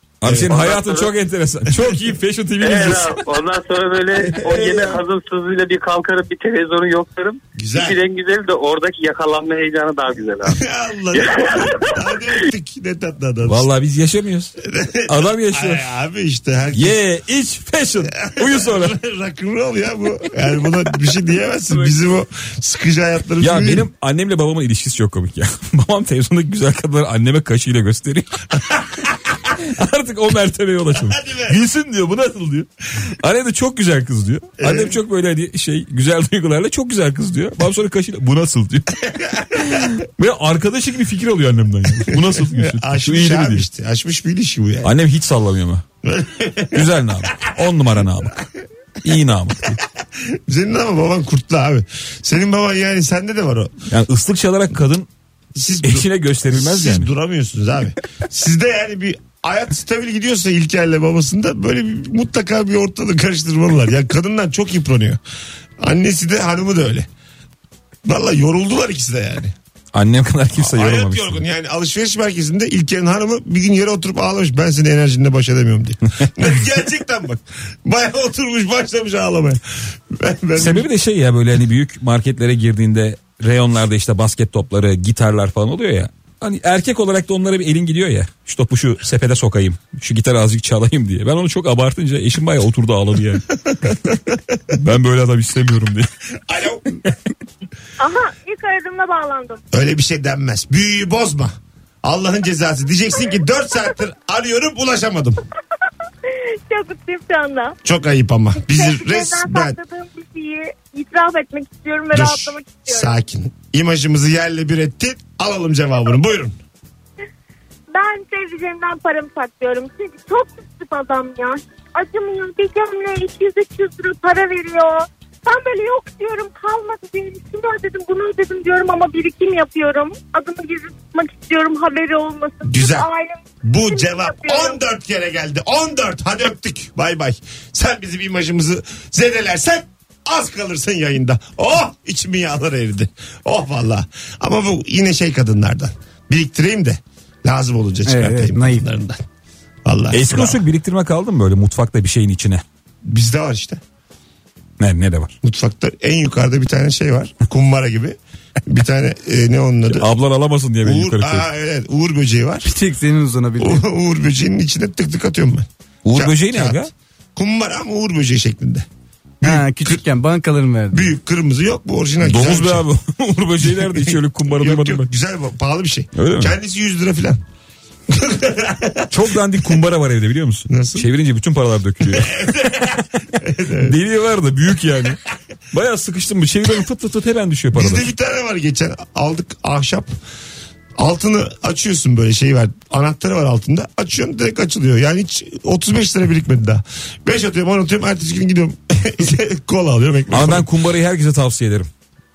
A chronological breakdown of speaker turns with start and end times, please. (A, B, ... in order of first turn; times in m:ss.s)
0:00.2-0:03.2 A
0:00.2-0:00.6 B
0:00.4-0:01.1 C
0:02.6-0:10.6 C
0:04.4-0:04.9 B
0:07.6-0:08.0 B
0:10.4-0:13.7 B
0:11.1-0:12.0 C
0:13.4-0:14.5 A
0:14.6-0:17.0 B
0:15.1-0:15.9 A
0:16.7-0:18.9 A
0:18.2-0:23.9 B
0:23.4-0:28.4 A
0:28.6-0:29.0 B
0:29.5-0:39.0 A
0:31.0-0:31.6 B
0:34.6-0:35.0 B
0:39.2-0:39.8 B
0:39.6-0:43.6 A
0:42.1-0:44.9 B
0:44.8-0:45.8 A
0:46.0-0:47.5 B
0:46.7-0:48.4 A
0:49.0-0:49.8 A
0:50.3-0:53.7 B
0:53.9-0:55.1 A
0:55.5-1:05.2 B
0:55.8-0:57.1 A
1:05.8-1:07.1 B
1:08.0-1:09.5 B
1:09.9-1:11.4 A
1:10.6-1:20.9 B
1:20.6-1:33.4 A
1:34.7-1:36.1 A
1:36.4-1:36.8 B
1:38.0-1:39.6 D
1:39.7-1:45.4 B
1:46.7-1:47.8 D
1:47.8-1:49.8 B
1:48.6-1:53.1 D
1:52.1-1:56.6 B
1:57.9-2:14.8 D
2:12.6-2:13.1 B
2:13.6-2:29.2 B
2:28.1-2:28.8 E
2:29.8-2:30.6 B
2:30.1-2:32.6 A
2:33.0-2:33.8 B
2:34.8-2:35.3 A
2:35.4-2:40.1 B
2:39.9-2:41.5 A
2:40.8-2:42.7 B
2:42.6-2:43.8 E
2:43.6-2:46.8 B
2:46.0-2:46.9 A
2:47.4-2:48.9 B
2:49.4-2:50.0 B
2:49.4-2:51.1 E
2:50.9-2:52.8 B
2:52.2-2:55.1 A
2:53.6-2:57.4 B
2:56.2-2:56.5 A
2:58.1-2:59.1 B
2:59.1-3:02.5 A
3:00.7-3:01.1 B
3:02.0-3:04.0 B
3:03.8-3:05.2 A
3:05.7-3:08.1 A
3:07.7-3:10.1 B
3:11.0-3:20.7 B
3:20.3-3:21.9 A